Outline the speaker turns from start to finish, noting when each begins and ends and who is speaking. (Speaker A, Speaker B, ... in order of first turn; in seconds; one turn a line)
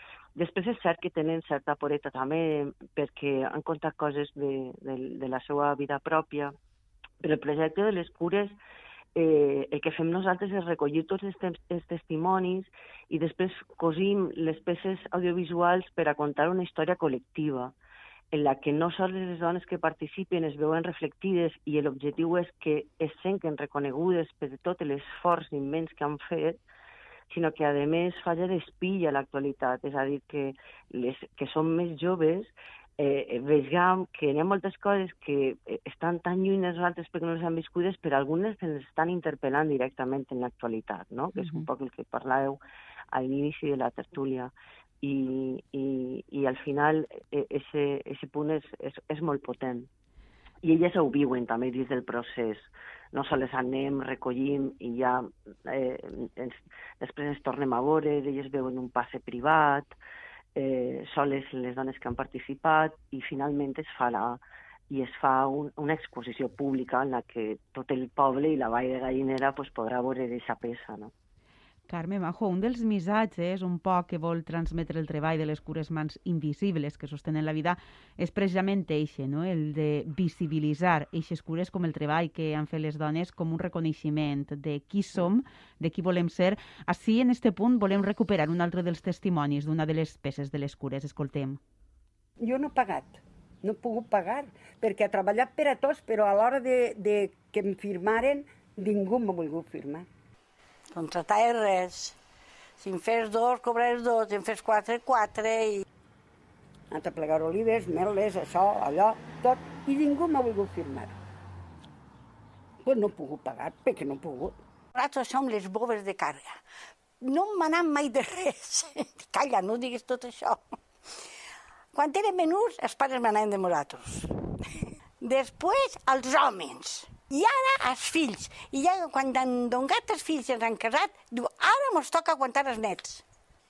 Speaker A: 0.3-6.5
Speaker A: 7.2-8.6
Speaker A: 9.1-17.7
Speaker A: 18.3-26.6
Speaker A: 27.3-42.6
Speaker B: 41.4-41.7
Speaker A: 43.1-49.9
Speaker A: 50.6-59.9
Speaker A: 60.5-71.1
Speaker B: 71.9-91.6
Speaker C: 92.4-100.1
Speaker D: 100.9-102.2
Speaker D: 102.8-105.8
Speaker C: 106.9-111.2
Speaker C: 112.8-114.5
Speaker D: 114.9-116.6
Speaker D: 117.2-120.6
Speaker D: 121.9-124.3
Speaker D: 125.2-133.2